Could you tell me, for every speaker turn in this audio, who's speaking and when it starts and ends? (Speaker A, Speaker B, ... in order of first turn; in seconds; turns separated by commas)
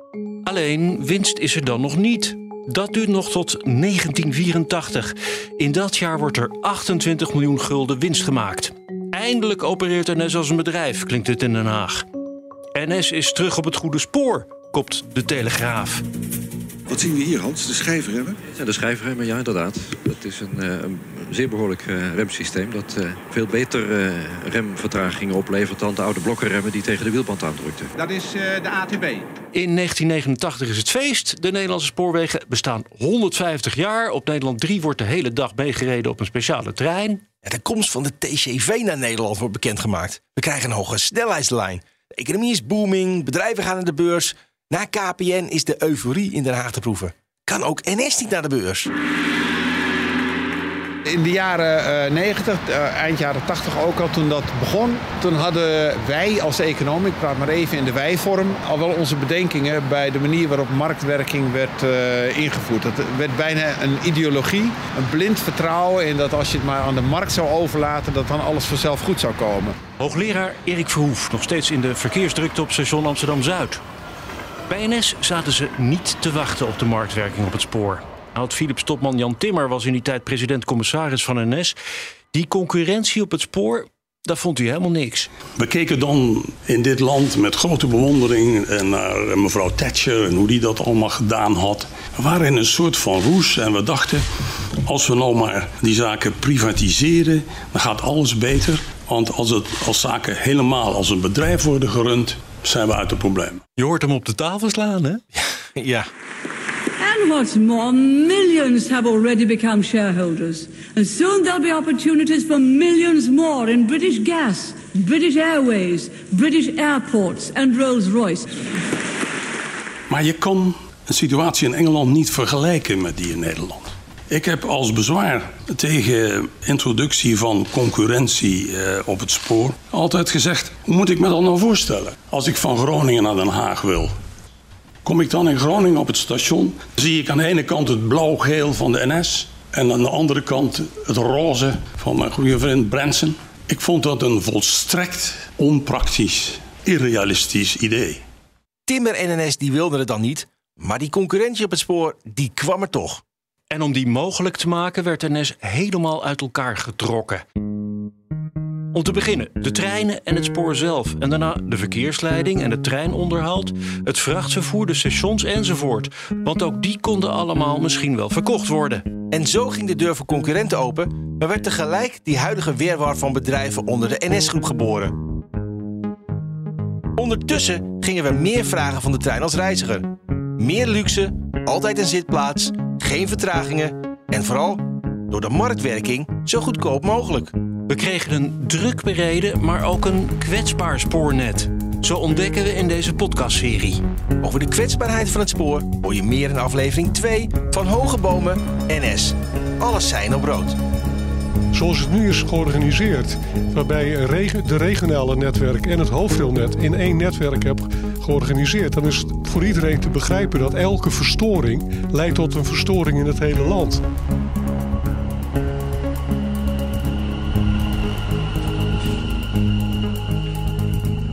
Speaker A: 0.4-12.0, Speaker A: 12.7-16.0, Speaker B: 16.9-27.9, Speaker C: 28.0-29.2, Speaker A: 29.5-37.2, Speaker D: 37.4-48.9, Speaker C: 51.0-69.8, Speaker A: 70.0-73.8, Speaker A: 74.7-81.8, Speaker A: 82.3-85.3, Speaker E: 85.5-94.2, Speaker E: 94.8-103.6, Speaker A: 103.8-105.2, Speaker D: 105.4-106.1, Speaker F: 107.0-118.4, Speaker E: 120.1-134.1, Speaker E: 135.0-148.2, Speaker D: 148.9-153.2, Speaker A: 153.7-157.4, Speaker A: 158.9-169.1, Speaker D: 169.3-175.1, Speaker D: 177.2-187.5, Speaker A: 187.9-194.0, Speaker D: 194.4-200.8, Speaker G: 201.7-214.0